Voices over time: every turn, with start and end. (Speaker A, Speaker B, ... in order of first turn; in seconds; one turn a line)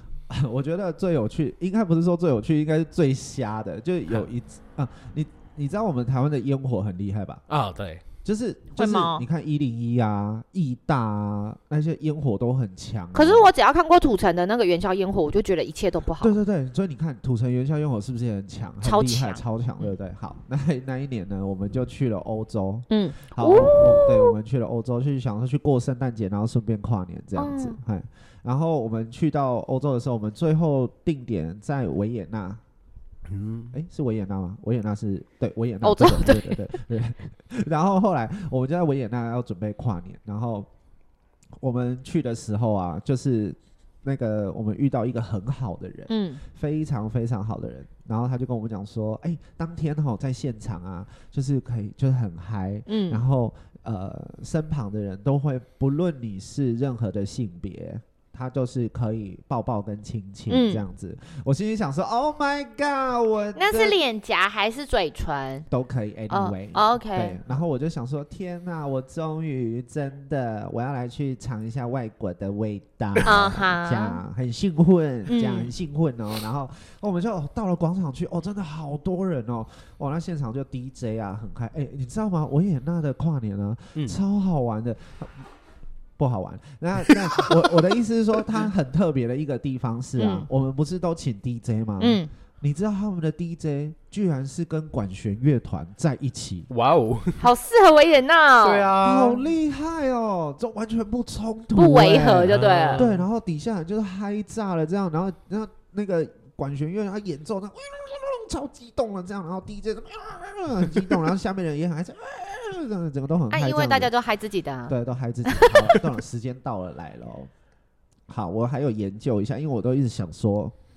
Speaker A: 0.3-7.4
Speaker B: 7.5-8.0
Speaker A: 8.2-13.5
Speaker C: 8.7-9.2
Speaker C: 13.1-16.4
Speaker A: 16.2-32.6
Speaker C: 18.8-19.9
Speaker C: 22.9-24.3
Speaker C: 27.4-27.8
Speaker B: 33.3-33.7
Speaker A: 33.7-40.7
Speaker C: 35.8-36.6
Speaker A: 41.6-64.0
Speaker C: 46.1-46.4
Speaker C: 52.9-53.2
Speaker C: 60.5-60.8
Speaker C: 63.5-65.7
Speaker A: 65.7-85.4
Speaker C: 66.3-67.4
Speaker C: 73.2-74.2
Speaker C: 75.3-75.7
Speaker A: 86.2-96.7
Speaker B: 87.1-87.5
Speaker C: 90.2-90.5
Speaker C: 92.0-92.3
Speaker B: 96.7-97.5
Speaker C: 97.4-98.9
Speaker B: 98.6-99.5
Speaker A: 99.0-114.1
Speaker C: 101.7-103.0
Speaker B: 102.4-103.3
Speaker C: 113.5-115.0
Speaker A: 114.9-117.5
Speaker C: 115.5-115.9
Speaker A: 118.3-120.7